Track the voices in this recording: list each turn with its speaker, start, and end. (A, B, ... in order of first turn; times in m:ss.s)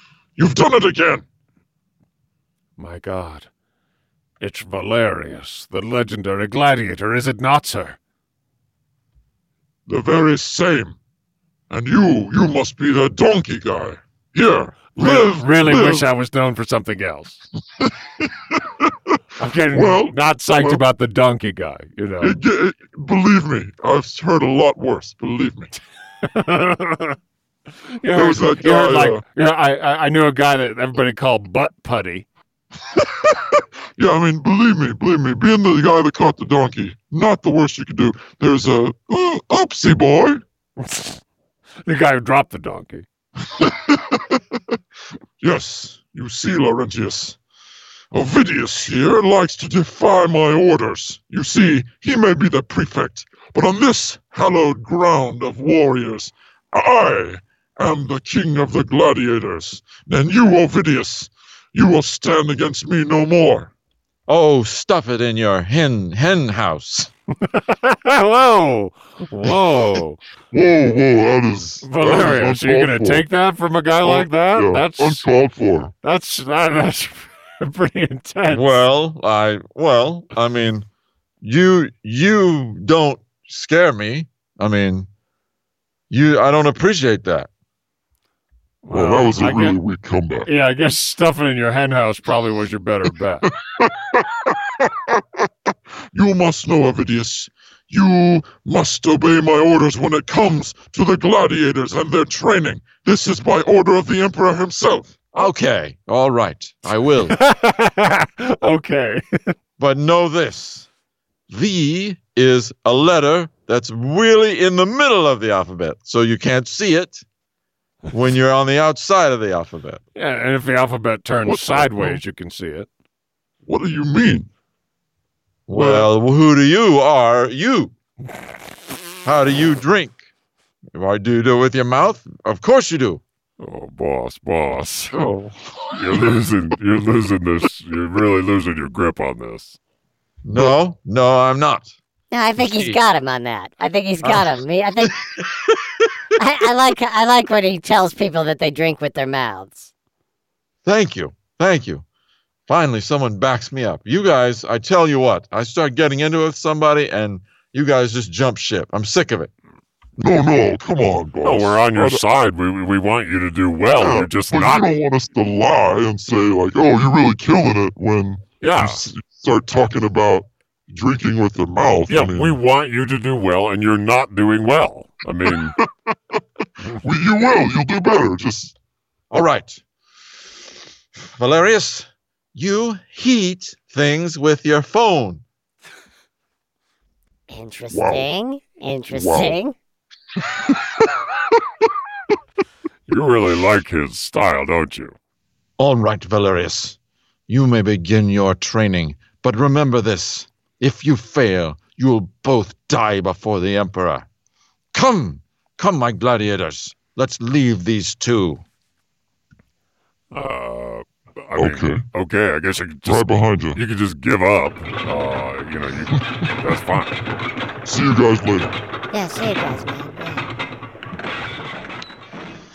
0:00.4-0:01.2 A
0:02.8-0:03.5 B
0:04.4-0:08.0 B
0:09.9-0:11.0 A
0:11.7-0:16.1 A
0:15.0-0:17.4 B
0:17.8-0:19.2 A
0:19.4-0:22.4 B
0:19.7-0:20.8 A
0:22.2-0:25.7 A
0:26.2-0:27.2 B
0:28.0-0:32.3 B
0:28.1-0:29.2 A
0:34.0-0:40.4 A
0:40.8-0:41.2 B
0:41.8-0:43.1 B
0:43.6-0:44.4 A
0:45.4-0:47.4 A
0:48.1-1:03.7 A
1:04.3-1:07.1 C
1:07.4-1:10.2 B
1:10.5-1:13.2 A
1:11.8-1:15.3 B
1:14.0-1:15.9 A
1:16.0-1:18.7 B
1:18.5-1:20.8 C
1:21.4-1:25.1 C
1:26.1-1:27.5 C
1:28.8-1:29.8 B
1:28.9-1:30.5 A
1:30.4-1:33.4 B
1:33.7-1:35.2 A
1:36.1-1:45.5 A
1:45.3-1:47.4 C
1:47.2-1:49.5 B
1:49.8-1:50.9 C
1:51.5-1:57.2 C
1:58.1-2:00.0 C
2:00.2-2:02.9 B
2:01.4-2:02.2 A
2:03.6-2:04.5 A
2:05.7-2:07.9 C
2:05.7-2:06.1 A
2:09.2-2:10.2 C
2:10.9-2:13.2 C
2:13.6-2:15.2 D
2:15.1-2:15.9 A
2:15.9-2:19.8 D
2:20.4-2:21.9 C
2:22.3-2:25.2 E
2:22.6-2:23.0 C
2:25.3-2:25.7 C
2:26.4-2:29.9 E
2:30.8-2:32.0 C
2:32.7-2:39.5 C
2:40.2-2:42.2 A
2:41.4-2:44.9 D
2:43.9-2:52.6 A
2:48.6-2:49.0 D
2:52.1-2:55.8 D
2:56.9-2:58.7 A
2:59.3-2:59.8 C
3:01.3-3:05.4 C
3:07.5-3:09.7 E
3:07.9-3:08.3 A
3:09.1-3:09.6 A
3:10.5-3:10.8 A
3:13.1-3:15.2 D
3:15.8-3:17.0 C
3:17.5-3:24.2 C
3:24.9-3:28.6 C
3:30.3-3:37.2 D
3:31.5-3:32.0 A
3:33.0-3:33.8 A
3:37.8-3:38.7 A
3:39.1-3:40.5 E